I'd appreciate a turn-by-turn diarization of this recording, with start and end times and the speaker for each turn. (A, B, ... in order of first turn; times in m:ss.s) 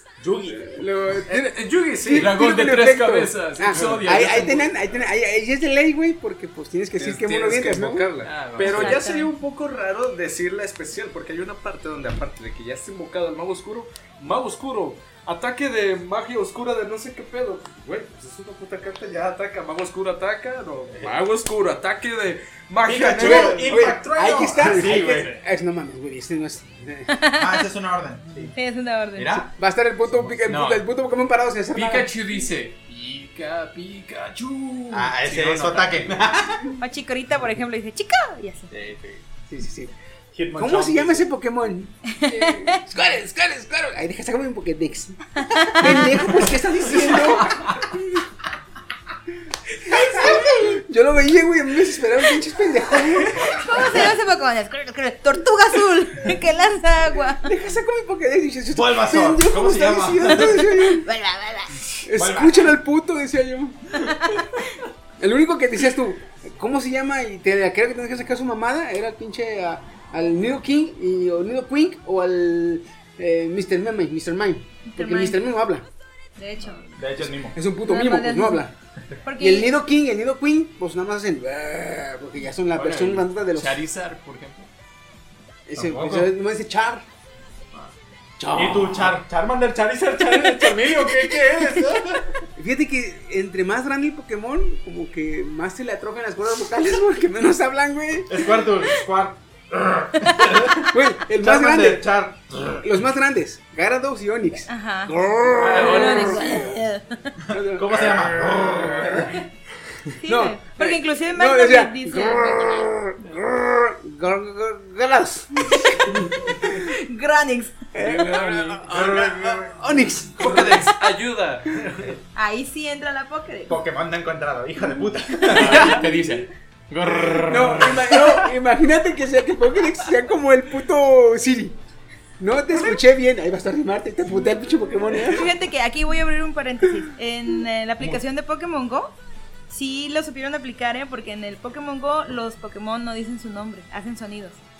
0:00.2-0:00.8 A
0:00.6-0:08.1 B
0:01.2-0:02.4 C
0:02.1-0:04.7 D
0:03.7-0:04.3 C
0:07.0-0:23.9 C
0:08.2-0:09.0 D
0:08.6-0:09.3 E
0:22.8-0:25.3 A
0:23.1-0:27.2 B
0:24.6-0:25.4 D
0:27.1-0:27.6 E
0:27.3-0:28.5 A
0:28.5-0:29.4 E
0:29.1-0:29.5 A
0:29.5-0:32.1 B
0:30.4-0:30.8 D
0:31.7-0:36.2 D
0:34.9-0:36.7 A
0:36.8-0:38.7 E
0:38.7-0:39.2 A
0:39.5-0:39.9 B
0:40.3-0:41.3 A
0:40.5-0:48.2 B
0:42.1-0:42.8 E
0:45.4-0:46.1 E
0:49.8-0:54.1 B
0:50.1-0:50.8 E
0:53.4-0:57.5 E
0:57.4-1:01.1 B
0:58.7-1:00.6 A
1:00.8-1:02.0 E
1:02.0-1:04.0 B
1:02.2-1:02.8 A
1:04.1-1:04.6 E
1:05.2-1:15.9 B
1:14.8-1:15.4 E
1:16.4-1:16.8 E
1:17.0-1:17.6 A
1:17.2-1:18.7 B
1:17.8-1:18.6 E
1:19.2-1:19.7 E
1:19.4-1:23.8 B
1:22.7-1:24.7 D
1:25.7-1:27.0 B
1:25.7-1:26.3 A
1:28.4-1:29.2 B
1:28.5-1:32.4 A
1:32.6-1:38.7 B
1:38.3-1:42.9 A
1:40.2-1:40.6 E
1:40.8-1:42.1 B
1:42.8-1:46.7 B
1:44.7-1:45.1 E
1:45.6-1:46.3 A
1:45.6-1:47.4 E
1:47.4-1:49.4 A
1:47.5-1:49.3 B
1:50.2-1:52.9 E
1:50.2-1:56.9 B
1:56.6-1:57.9 E
1:57.9-2:01.0 B
1:58.0-1:58.8 D
1:58.9-2:00.8 A
2:00.4-2:02.2 C
2:02.3-2:03.8 E
2:03.7-2:06.0 A
2:05.5-2:08.3 D
2:07.4-2:11.8 B
2:12.4-2:15.5 B
2:15.2-2:19.1 E
2:19.7-2:24.6 E